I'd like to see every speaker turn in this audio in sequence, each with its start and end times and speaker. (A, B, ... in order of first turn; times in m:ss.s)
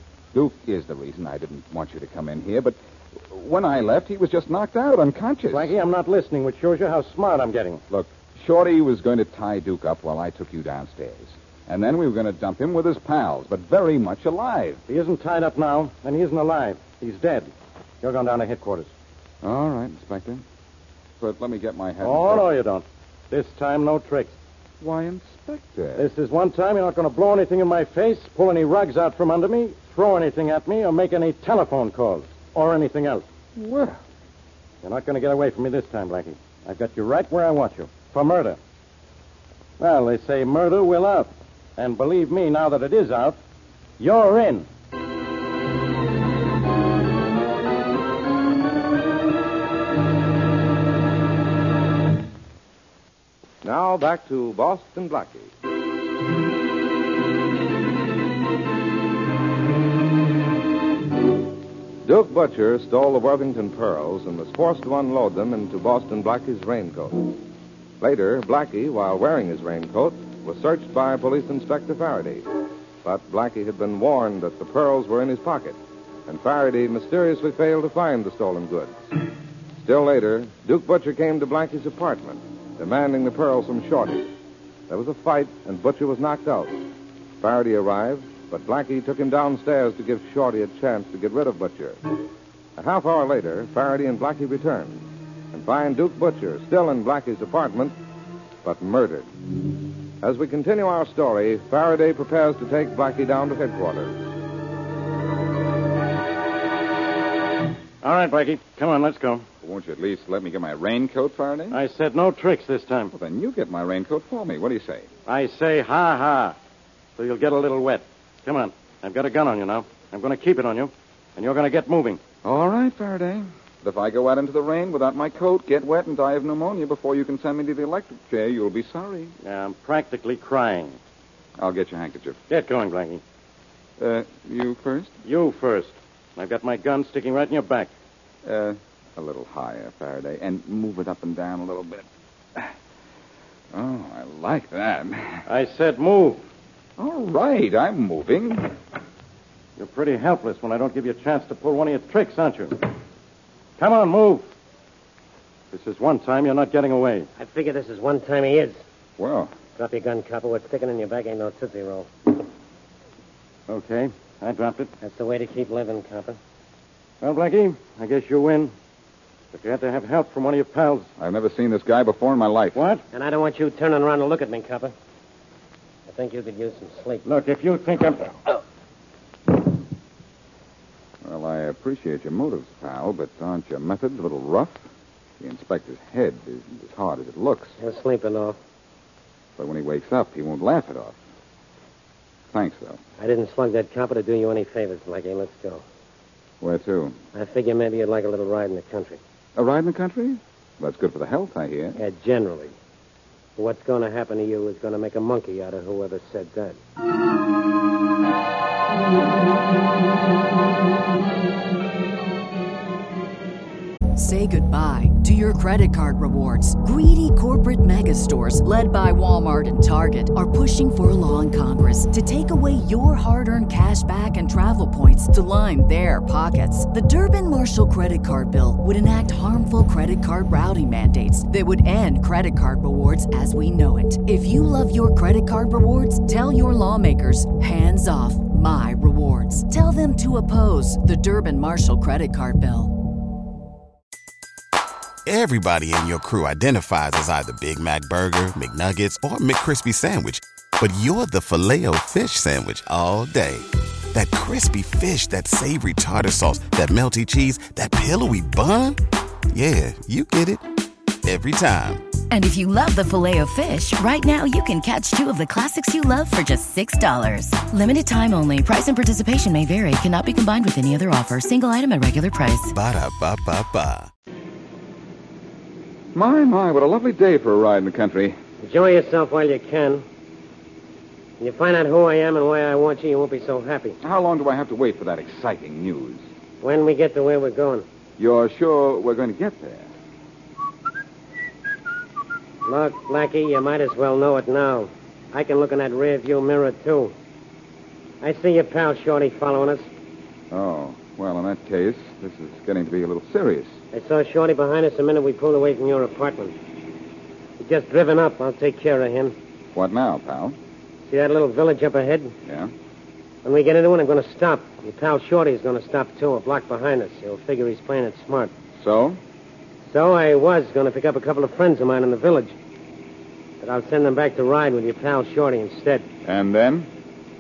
0:00.3-0:05.7 A
0:05.5-0:07.8 B
0:07.9-0:14.8 A
0:14.9-0:17.5 B
0:18.0-0:18.9 B
0:19.4-0:20.4 A
0:21.2-0:22.5 A
0:22.0-0:24.4 B
0:24.8-0:26.1 A
0:26.0-0:33.2 B
0:33.6-0:34.0 A
0:34.8-0:38.6 B
0:39.8-0:43.4 B
0:44.0-0:44.7 B
0:53.6-0:55.5 C
1:02.0-1:07.4 C
1:08.0-1:12.4 C
1:13.0-1:19.0 C
1:19.8-1:24.3 C
1:24.9-1:26.8 C
1:27.4-1:32.0 C
1:32.8-1:37.9 C
1:38.6-1:39.3 C
1:40.2-1:44.2 C
1:48.0-1:49.4 B
1:49.6-1:51.8 A
1:51.7-1:53.1 B
1:53.1-1:55.1 A
1:55.3-1:56.6 B
1:57.2-2:02.2 B
2:02.4-2:09.3 A
2:09.4-2:11.0 B
2:11.6-2:12.4 A
2:12.5-2:13.2 B
2:14.0-2:15.1 A
2:15.2-2:17.9 B
2:18.4-2:22.7 A
2:23.7-2:25.5 A
2:25.5-2:26.4 B
2:27.0-2:28.7 A
2:29.8-2:32.9 B
2:33.8-2:34.4 B
2:35.7-2:37.3 B
2:37.4-2:38.8 D
2:39.2-2:39.5 A
2:39.8-2:42.1 D
2:43.7-2:44.9 B
2:45.0-2:46.4 D
2:47.2-2:48.7 B
2:49.5-2:51.1 B
2:51.2-2:52.8 A
2:52.8-2:53.0 B
2:53.1-2:54.9 D
2:56.1-2:57.2 D
2:57.2-2:58.3 B
3:01.2-3:04.8 A
3:05.4-3:07.8 A
3:07.8-3:08.6 D
3:09.6-3:11.2 A
3:12.5-3:13.0 A
3:13.2-3:15.8 D
3:16.6-3:17.2 A
3:17.3-3:19.2 D
3:19.6-3:22.0 A
3:22.0-3:22.7 D
3:23.6-3:26.8 D
3:34.2-4:02.9 E
4:05.3-4:19.0 F
4:19.5-4:20.6 F
4:21.2-4:22.0 F
4:22.3-4:32.7 G
4:32.7-4:34.1 F
4:36.1-4:38.4 A
4:38.6-4:40.0 D
4:41.4-4:44.0 D
4:44.0-4:46.2 A
4:46.6-4:47.8 D
4:48.2-4:49.9 A
4:52.6-4:57.1 D
4:58.2-4:59.9 D
5:00.5-5:03.8 A
5:03.9-5:06.6 D
5:07.6-5:09.4 D
5:09.7-5:10.6 A
5:11.1-5:12.3 D
5:12.5-5:12.7 A
5:13.4-5:18.5 D
5:18.8-5:19.2 A
5:19.9-5:22.6 D
5:23.6-5:26.1 D
5:26.2-5:26.9 A